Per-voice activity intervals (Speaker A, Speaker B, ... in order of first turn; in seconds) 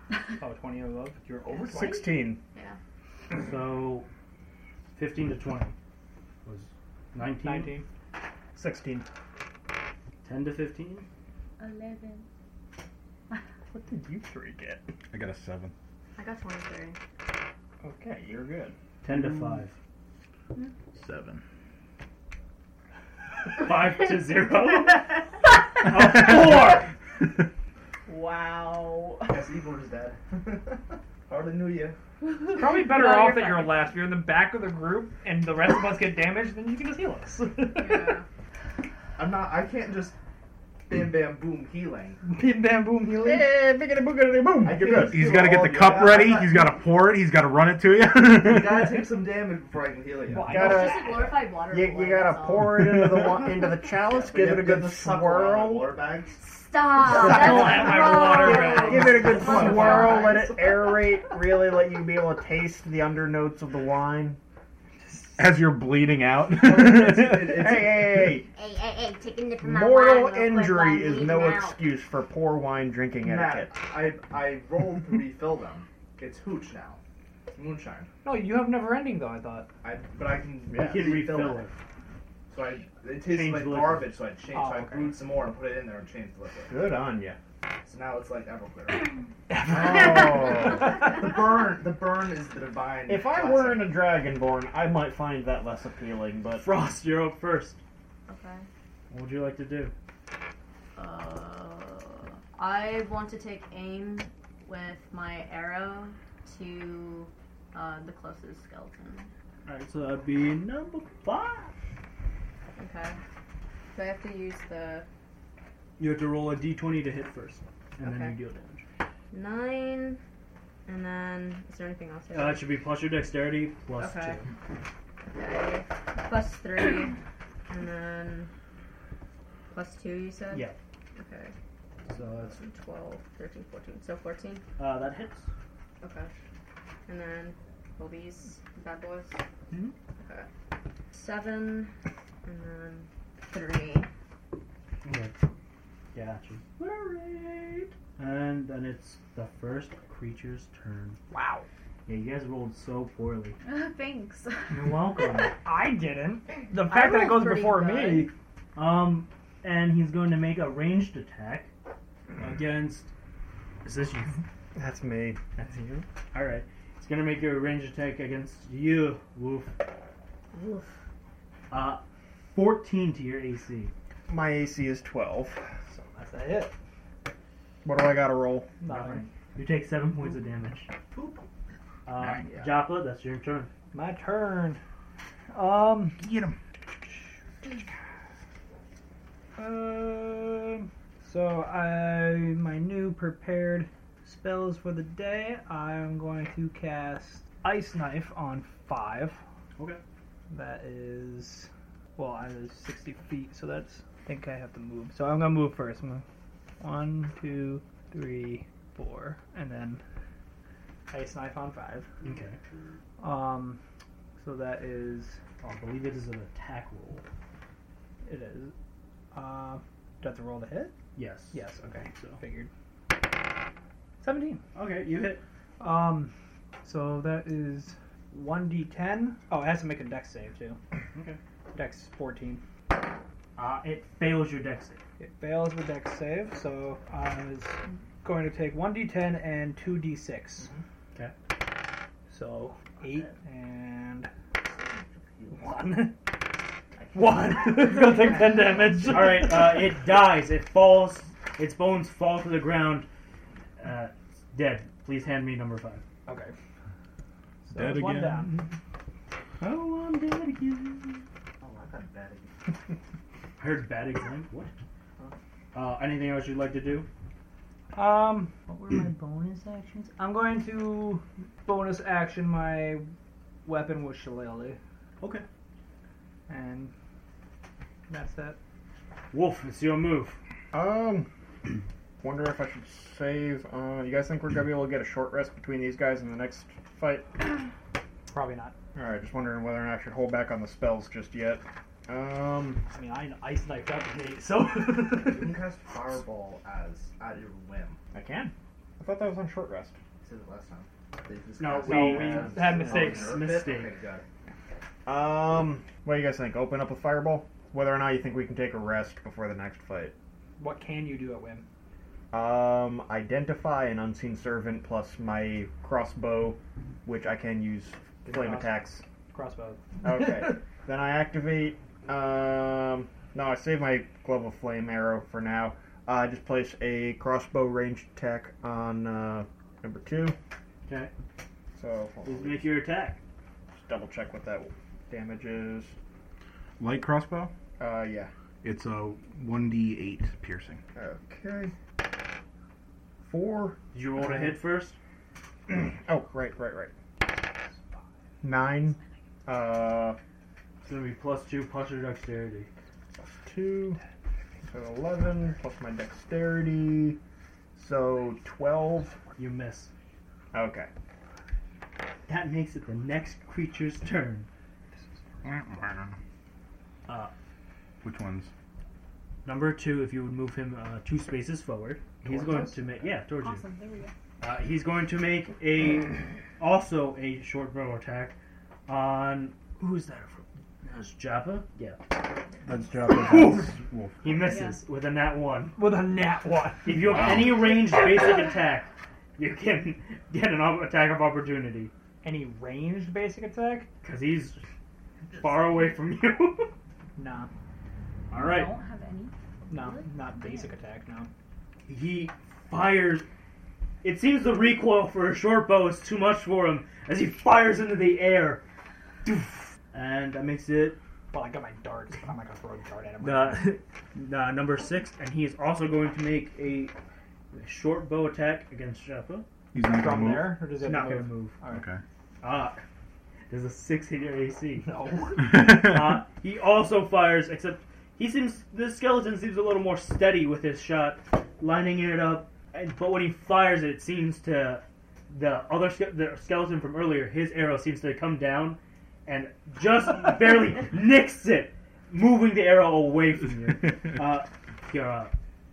Speaker A: 0.4-2.0, 7.3-7.9, 32.5-38.2, 42.2-43.6, 50.3-51.3, 57.0-59.6, 78.2-79.7, 84.5-85.2, 89.5-90.9, 151.3-151.7, 154.7-158.3, 175.9-176.7, 178.8-179.3, 183.9-184.8, 185.5-186.3, 189.6-199.4, 200.5-206.2, 206.8-210.0, 211.1-212.1, 213.2-213.8, 214.4-215.4, 218.2-218.7, 219.3-220.9, 221.5-222.7, 224.2-224.6, 225.8-226.3, 226.8-230.8, 231.7-232.6, 235.2-240.7, 242.3-244.3, 245.5-246.2, 247.1-249.8, 256.3-256.5, 257.6-258.5, 267.9-273.1, 273.6-274.8, 276.5-276.9, 278.1-278.6, 288.3-288.8, 292.9-295.6, 301.8-303.4, 310.6-311.6, 318.3-320.6, 385.8-387.1, 392.2-393.9, 397.2-397.5, 399.7-401.3, 411.3-413.8, 419.8-421.9, 424.8-425.7
Speaker B: 1.7-2.4, 8.6-9.1, 13.7-14.9, 17.8-18.8, 43.2-45.2, 50.5-51.1, 51.7-55.9, 58.3-64.4, 67.5-68.5, 69.6-73.7, 80.7-81.0, 86.7-87.4, 89.7-90.9, 93.1-96.7, 164.8-165.4, 174.3-175.6, 177.8-178.7, 280.7-281.3, 282.2-287.6, 288.9-292.8, 298.1-300.0, 305.1-310.1, 312.3-319.0, 320.0-330.4, 331.7-332.7, 333.8-335.9, 337.8-338.3, 340.9-341.7, 343.2-344.6, 345.7-346.9, 348.4-350.2, 353.2-354.0, 354.7-357.2, 357.8-359.2, 360.5-360.9
Speaker C: 1.7-2.1, 11.6-12.3, 28.1-29.4, 32.7-33.9, 153.6-154.7, 373.4-374.1, 384.5-384.8, 395.3-395.9, 398.3-400.8
Speaker D: 3.4-4.1, 5.0-5.8, 6.5-7.8, 10.2-11.1, 19.0-19.8, 23.5-25.2, 25.8-26.9, 80.8-81.7, 83.2-84.1, 96.6-97.8, 99.1-99.9, 109.7-111.7, 116.0-118.8, 122.3-124.5, 132.1-132.6, 134.8-135.5, 145.0-145.4, 146.1-151.2, 152.1-153.6, 154.7-155.5, 158.8-161.7, 162.4-163.1, 163.8-164.4, 165.6-169.8, 171.7-173.9, 178.9-180.9, 182.1-183.7, 212.2-212.6, 215.6-217.2, 221.2-222.4, 224.7-225.4, 231.1-231.4, 233.6-235.0, 249.0-253.1, 253.8-256.0, 259.6-261.2, 263.6-264.7, 265.7-267.1, 275.2-275.4, 279.3-280.4, 301.6-303.9, 330.9-331.1, 332.2-333.2, 343.9-345.0, 350.8-352.7, 359.4-359.9, 362.3-364.5, 367.1-367.3, 369.4-373.6, 374.4-378.4, 378.9-382.0, 383.1-385.8, 386.9-391.9, 394.0-394.6, 395.4-396.7, 398.3-398.7, 401.9-403.3, 404.0-408.6, 409.2-411.0, 413.2-416.9, 417.5-419.4, 420.8-421.6, 422.4-422.8, 423.5-445.4
Speaker E: 15.1-15.7, 19.1-19.5, 20.9-21.4, 26.0-26.5, 45.0-49.0, 52.8-53.2, 65.4-67.6, 182.2-182.4, 186.2-186.6, 257.7-258.7, 336.8-337.5, 338.6-340.8, 365.4-366.1, 368.0-368.5, 372.2-372.9, 382.6-384.6, 387.0-387.7, 419.7-420.7, 421.7-422.0
Speaker F: 16.2-17.0, 37.8-38.2, 50.5-52.8, 56.4-60.4, 68.4-71.8, 98.3-98.7, 101.0-109.3, 112.8-113.2, 113.9-115.1, 118.0-118.3, 119.3-120.2, 120.9-122.7, 124.0-124.4, 125.3-127.2, 127.7-128.5, 129.7-131.5, 132.4-134.6, 136.0-136.3, 137.1-139.4, 140.2-140.5, 141.1-141.9, 142.4-144.1, 156.8-158.3, 170.5-170.8
Speaker G: 29.2-32.0, 39.2-40.2, 40.9-42.2, 44.6-46.8, 48.2-50.9, 54.0-56.5, 57.4-58.2, 58.9-61.1, 66.5-68.3, 73.2-77.0, 77.5-78.1, 79.8-81.7, 82.5-86.9, 87.8-89.3, 90.6-93.9, 181.1-181.5, 182.4-182.8, 245.4-245.7, 247.0-247.3, 261.6-262.5, 295.2-298.0, 300.2-304.2